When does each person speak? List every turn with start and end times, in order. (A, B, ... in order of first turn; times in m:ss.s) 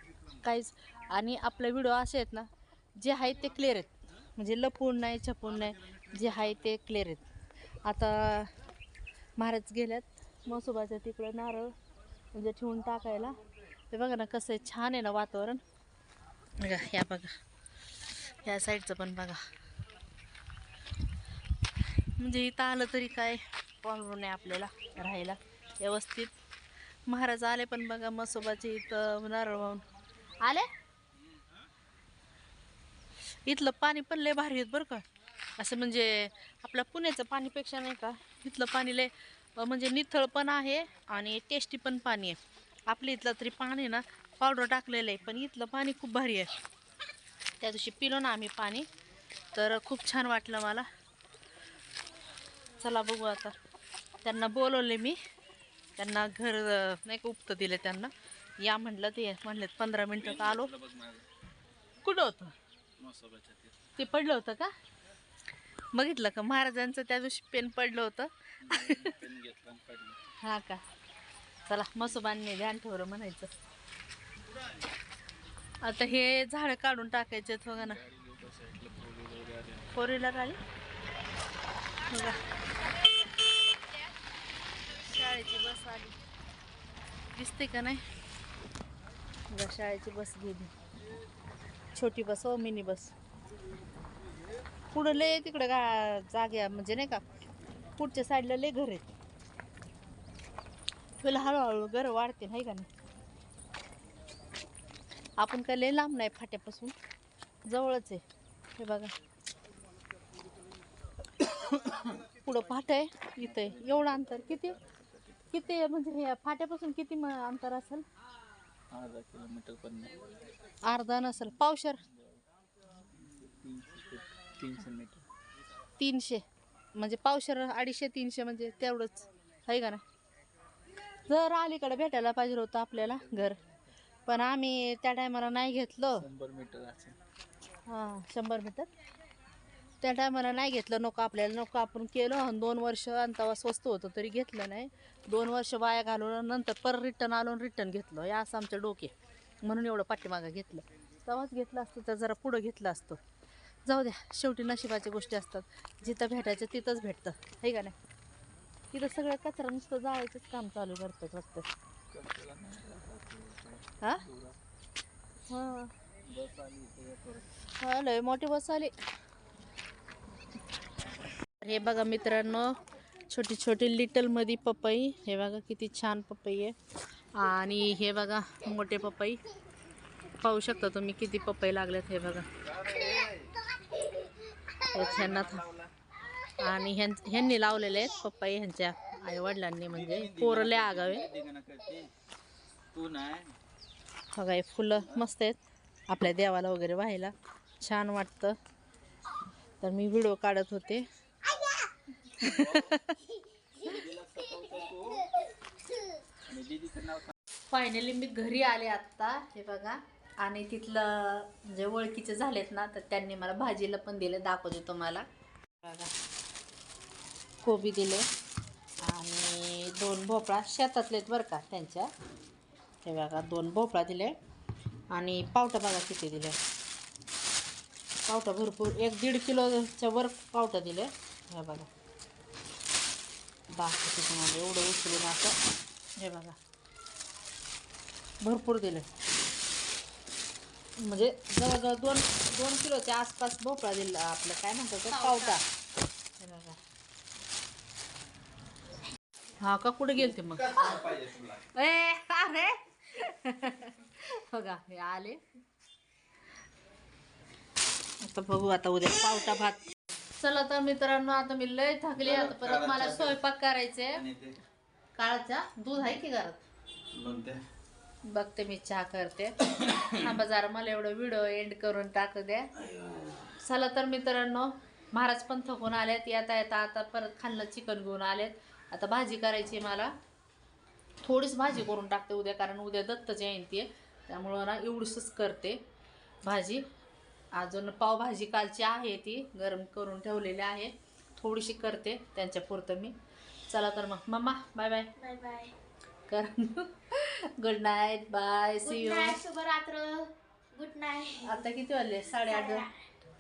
0:00.4-0:07.2 A
0:07.8-0:08.5 A
0:09.4-0:11.7 A
0:12.3-0:13.4 A
0:13.9-0:15.6 A
0:16.6-0:17.3 A
0:18.2-0:19.4 A
0:22.0-0:26.3 A
0:27.1-0:29.8 A
0:30.4-0:30.7 A
0:33.4-0:35.0 A
0:35.6-0:42.4 A
0:42.9-0:46.5 A
0:47.6-0:48.9 A
0:49.5-0:50.9 A
0:52.8-0:53.5 A
0:54.2-0:55.2 A
0:56.0-1:00.7 A
1:00.2-1:01.3 B
1:02.0-1:02.5 A
1:03.0-1:03.9 B
1:04.0-1:04.7 A
1:05.9-1:09.1 A
1:08.6-1:10.2 B
1:10.4-1:10.8 A
1:11.7-1:13.5 A
1:15.8-1:18.0 A
1:17.8-1:19.9 B
1:19.9-1:20.6 A
1:22.1-1:22.5 A
1:24.9-1:26.2 A
1:27.3-1:28.0 A
1:29.5-1:30.7 A
1:31.9-1:33.1 A
1:34.9-1:37.2 A
1:38.0-1:39.1 A
1:41.2-1:42.9 A
1:45.4-1:46.9 A
1:47.7-1:48.2 A
1:48.8-1:49.1 A
1:51.4-1:54.8 A
1:53.4-1:55.8 B
1:55.5-1:58.0 A
1:58.9-2:00.2 B
2:00.8-2:02.0 A
2:02.1-2:02.4 B
2:03.1-2:05.2 B
2:06.0-2:06.4 A
2:07.0-2:10.0 A
2:11.3-2:13.6 A
2:13.1-2:13.7 B
2:14.3-2:16.2 A
2:16.2-2:17.2 B
2:17.9-2:18.9 A
2:20.0-2:33.2 A
2:33.8-2:38.0 A
2:38.9-2:41.7 A
2:42.1-2:44.6 B
2:45.5-2:45.9 A
2:46.3-2:47.5 B
2:47.8-2:48.9 A
2:51.6-2:56.8 A
2:57.3-2:59.4 A
3:00.4-3:02.5 A
3:02.6-3:03.6 B
3:04.9-3:05.6 A
3:04.9-3:05.9 B
3:06.6-3:11.3 A
3:09.9-3:12.1 B
3:12.9-3:13.6 B
3:14.3-3:18.6 A
3:19.8-3:21.1 A
3:22.2-3:23.2 A
3:22.4-3:23.2 B
3:23.7-3:25.3 B
3:26.4-3:27.3 B
3:27.7-3:35.2 A
3:35.8-3:36.1 A
3:37.6-3:38.3 A
3:39.0-3:42.1 A
3:43.0-3:44.4 A
3:45.1-3:46.6 A
3:48.3-3:51.9 A
3:53.7-3:55.6 A
3:56.2-3:56.6 A
3:58.4-3:59.1 A
4:01.0-4:05.6 A
4:05.2-4:05.6 C
4:06.4-4:06.8 A
4:09.6-4:11.2 A
4:10.3-4:11.7 B
4:11.7-4:15.4 A
4:18.2-4:19.8 A
4:20.4-4:24.2 A
4:22.1-4:23.4 B
4:24.1-4:24.6 B
4:25.2-4:26.6 A
4:27.1-4:27.6 B
4:28.2-4:32.7 A
4:32.8-4:33.5 B
4:33.6-4:40.1 A
4:41.2-4:45.8 A
4:46.4-4:46.8 A
4:47.5-4:53.1 A
4:53.7-4:55.1 A
4:55.2-4:55.7 C
4:56.3-4:59.4 A
4:58.8-5:01.6 C
5:01.4-5:02.9 A
5:02.4-5:03.1 C